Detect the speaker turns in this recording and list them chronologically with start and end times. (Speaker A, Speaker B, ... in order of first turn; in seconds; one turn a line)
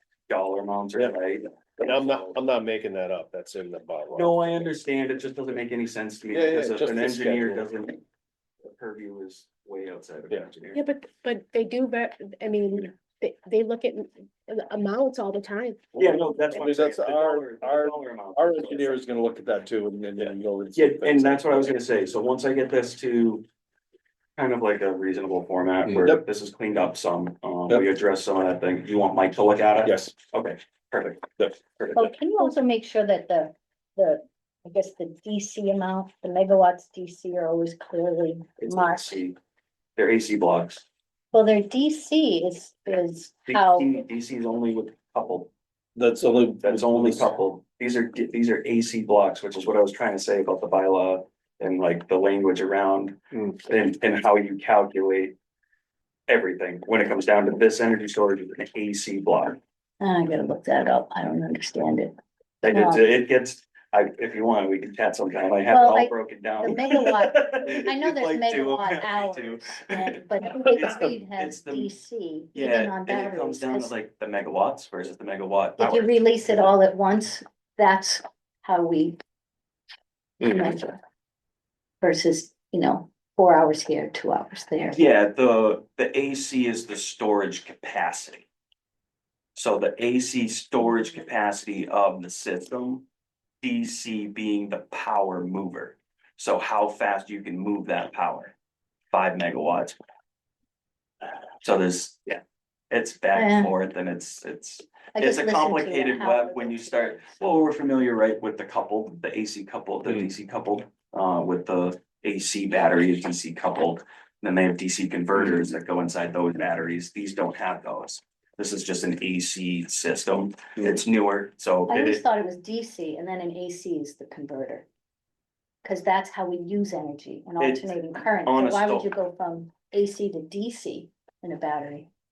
Speaker A: 0.3-2.4
Speaker B: 1.8-4.6
Speaker A: 4.1-8.0
Speaker B: 6.3-7.7
Speaker A: 8.6-10.8
Speaker C: 10.7-15.8
Speaker A: 15.9-19.0
Speaker B: 16.5-21.7
Speaker A: 20.2-23.4
Speaker A: 24.4-32.1
Speaker B: 25.9-26.2
Speaker B: 29.9-30.1
Speaker D: 31.9-39.2
Speaker A: 38.6-39.4
Speaker A: 40.0-40.8
Speaker D: 41.3-43.9
Speaker A: 43.5-45.5
Speaker B: 46.0-47.3
Speaker A: 46.6-55.3
Speaker A: 56.3-59.6
Speaker D: 60.0-62.1
Speaker A: 62.6-71.9
Speaker D: 62.7-63.1
Speaker D: 65.7-73.9
Speaker A: 72.5-76.1
Speaker D: 75.8-79.2
Speaker D: 80.4-81.0
Speaker D: 82.0-85.0
Speaker A: 84.9-88.5
Speaker A: 89.5-93.1
Speaker A: 93.6-98.5
Speaker A: 99.1-100.0
Speaker A: 101.6-122.2
Speaker D: 103.3-103.7
Speaker D: 105.1-107.4
Speaker D: 121.9-124.8
Speaker D: 125.8-132.1
Speaker A: 127.6-129.1